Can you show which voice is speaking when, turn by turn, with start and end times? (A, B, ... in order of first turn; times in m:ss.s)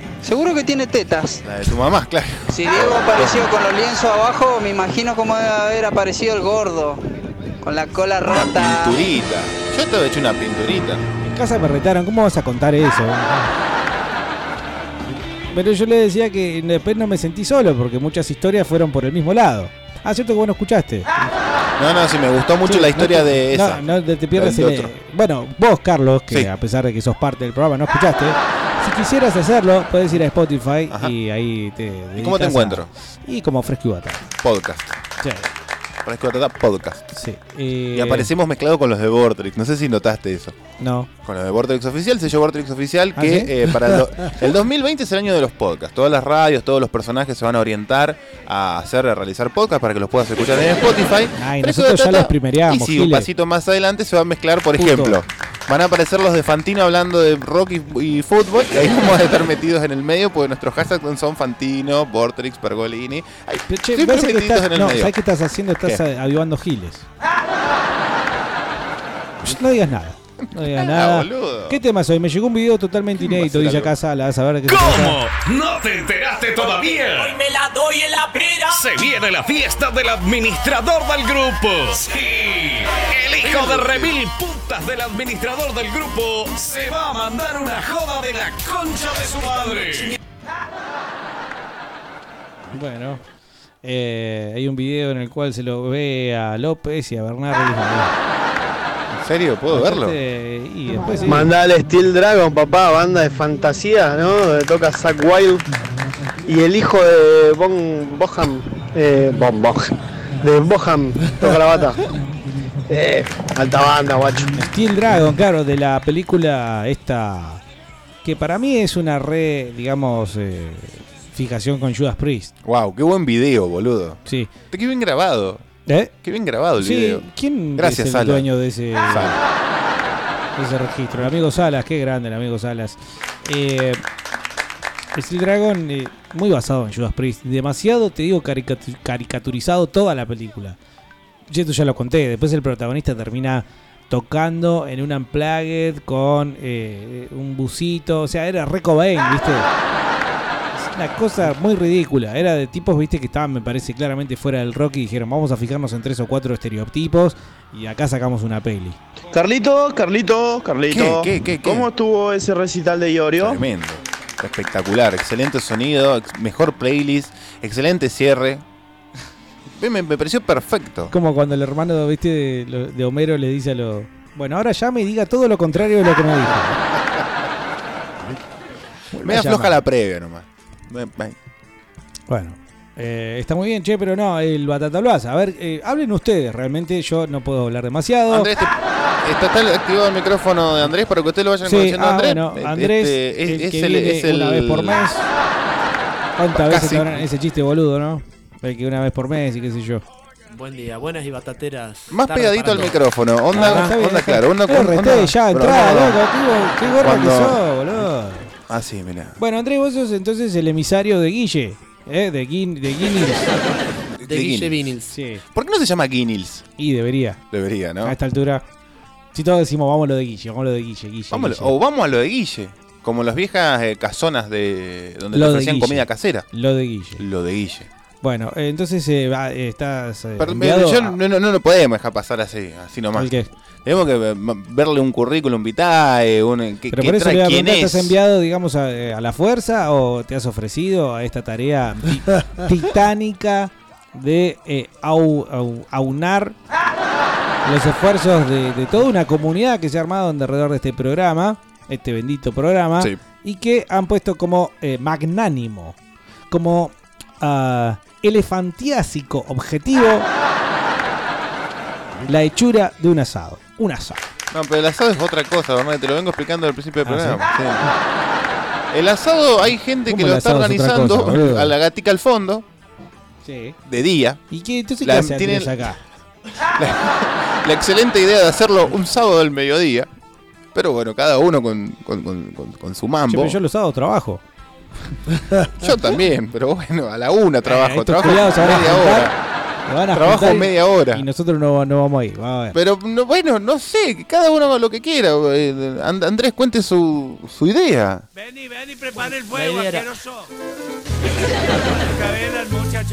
0:00.2-0:01.4 A
0:01.4-0:03.5 B
0:02.5-0:07.0 A
0:07.6-0:09.0 A
0:08.2-0:11.0 B
0:11.2-0:13.5 C
0:15.5-0:21.3 C
0:21.8-0:23.8 B
0:22.6-0:34.3 C
0:24.4-0:24.9 B
0:32.2-0:32.9 B
0:34.4-0:35.0 B
0:35.2-0:35.5 C
0:36.0-0:37.0 B
0:37.1-0:38.3 C
0:37.9-0:40.5 B
0:40.8-0:41.1 C
0:41.2-1:05.1 B
0:43.2-0:44.0 C
0:51.4-0:53.3 C
0:54.8-0:55.2 C
1:03.7-1:07.1 C
1:09.4-1:15.2 C
1:10.8-1:11.8 B
1:13.2-1:13.9 B
1:14.7-1:17.5 D
1:18.4-1:30.2 D
1:23.5-1:24.1 B
1:32.7-1:33.2 C
1:33.8-1:38.1 C
1:39.1-1:40.2 B
1:39.7-1:41.5 C
1:41.2-1:45.6 E
1:46.5-1:49.8 E
1:50.4-1:52.0 E
1:52.9-1:54.6 E
1:54.6-1:57.6 C
1:58.2-2:02.5 C
2:02.6-2:05.6 B
2:04.3-2:04.5 C
2:05.9-2:06.1 C
2:06.2-2:07.2 B
2:06.8-2:09.4 C
2:07.8-2:08.5 B
2:09.1-2:09.4 B
2:10.6-2:14.0 C
2:15.2-2:20.8 C
2:21.5-2:29.7 C
2:30.8-2:39.0 C
2:39.3-2:43.6 F
2:40.9-2:41.9 B
2:43.4-2:48.6 B
2:49.8-2:51.1 B
2:51.1-2:56.8 C
2:59.1-2:59.8 C
2:59.2-3:01.4 B
3:02.3-3:08.5 C
3:08.3-3:15.1 B
3:11.6-3:15.2 C
3:16.4-3:20.0 C
3:16.5-3:17.2 B
3:20.5-3:23.0 G
3:22.1-3:26.2 B
3:23.5-3:28.5 C
3:26.6-3:26.9 G
3:27.0-3:27.6 B
3:28.7-3:29.4 B
3:29.4-3:33.5 C
3:34.1-3:34.9 B
3:34.3-3:35.1 G
3:35.1-3:35.4 C
3:35.5-3:36.7 B
3:36.8-3:37.4 C
3:37.5-3:38.2 B
3:38.0-3:38.6 C
3:39.3-3:41.7 C
3:41.3-3:46.5 B
3:45.3-3:47.2 C
3:47.2-3:47.9 B
3:48.2-3:51.2 C
3:50.4-3:53.3 B
3:53.2-3:53.5 C
3:53.8-3:58.2 B
3:56.9-4:06.6 C
4:07.6-4:16.0 C
4:16.5-4:20.3 C
4:22.3-4:24.3 C
4:24.5-4:27.8 B
4:27.0-4:27.4 C
4:28.9-4:32.6 B
4:30.1-4:31.7 C
4:33.4-4:33.8 C
4:33.9-4:34.4 B
4:34.5-4:36.0 C
4:35.0-4:35.8 B
4:36.8-4:40.1 B
4:40.7-4:43.6 B
4:43.3-4:44.4 C
4:45.8-4:49.3 B
4:47.6-4:49.3 C
4:49.9-4:52.8 C
4:50.1-4:51.2 B
4:52.7-4:58.3 B
4:59.4-5:00.1 G